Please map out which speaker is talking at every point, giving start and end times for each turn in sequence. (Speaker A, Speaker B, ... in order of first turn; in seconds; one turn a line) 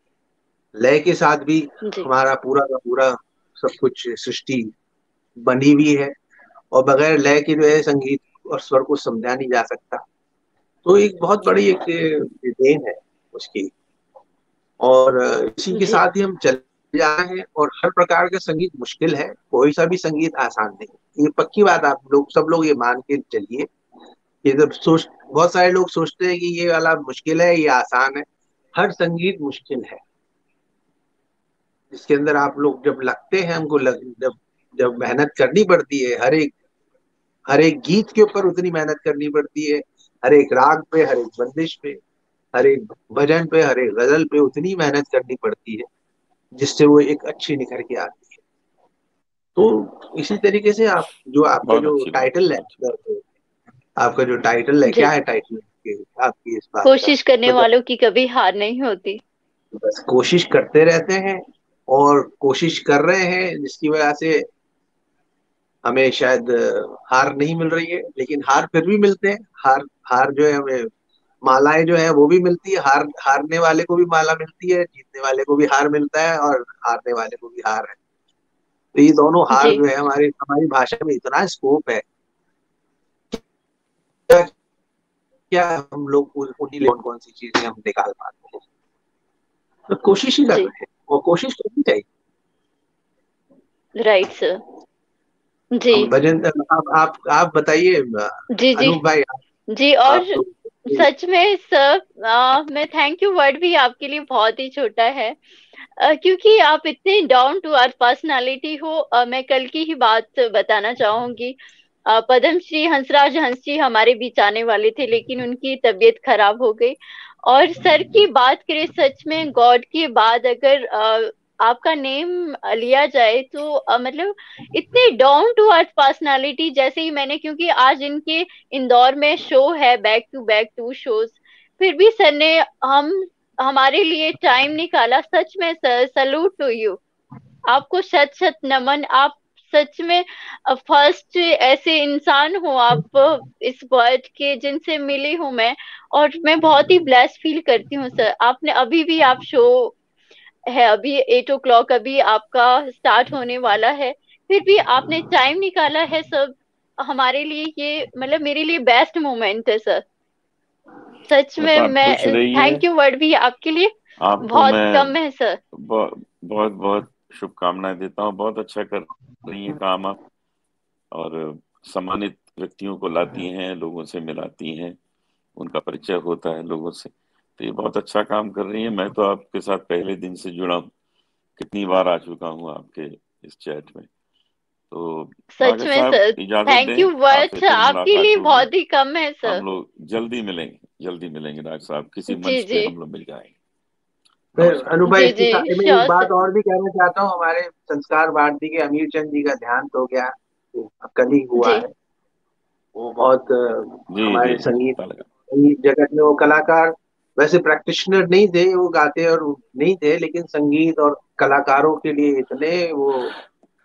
Speaker A: 0.8-4.7
Speaker A: 5.4-6.1
Speaker A: 6.7-10.0
Speaker A: 10.8-13.7
Speaker A: 14.8-23.7
Speaker B: 15.7-16.0
Speaker A: 24.4-28.2
Speaker A: 28.8-30.0
Speaker A: 31.9-36.5
Speaker A: 37.5-42.0
Speaker A: 42.5-45.9
Speaker A: 46.5-48.4
Speaker A: 49.5-53.2
Speaker C: 51.6-52.7
Speaker A: 54.0-57.7
Speaker B: 54.9-55.1
Speaker B: 56.8-59.2
Speaker A: 59.7-64.4
Speaker A: 65.8-70.9
Speaker A: 71.4-78.0
Speaker A: 78.9-82.0
Speaker B: 79.5-79.8
Speaker A: 84.3-84.5
Speaker A: 85.5-88.6
Speaker A: 89.9-92.0
Speaker B: 94.0-94.6
Speaker B: 95.8-96.1
Speaker A: 95.9-99.4
Speaker B: 98.5-99.0
Speaker B: 99.7-100.4
Speaker A: 100.1-101.1
Speaker B: 100.9-105.4
Speaker B: 106.0-111.5
Speaker B: 112.1-137.0
Speaker B: 137.7-149.9
Speaker B: 150.7-160.0
Speaker B: 161.3-163.9
Speaker C: 161.6-162.8
Speaker C: 164.2-165.1
Speaker B: 164.4-165.6
Speaker C: 165.8-170.2
Speaker C: 171.1-175.0
Speaker C: 175.6-180.9
Speaker C: 181.6-184.1
Speaker C: 184.9-188.7
Speaker B: 185.6-189.6
Speaker C: 189.4-193.5
Speaker B: 192.3-192.9
Speaker C: 194.6-194.9
Speaker A: 194.6-201.9
Speaker B: 195.1-196.3
Speaker B: 201.6-201.8
Speaker A: 202.9-205.0
Speaker C: 204.1-205.3
Speaker A: 205.5-213.3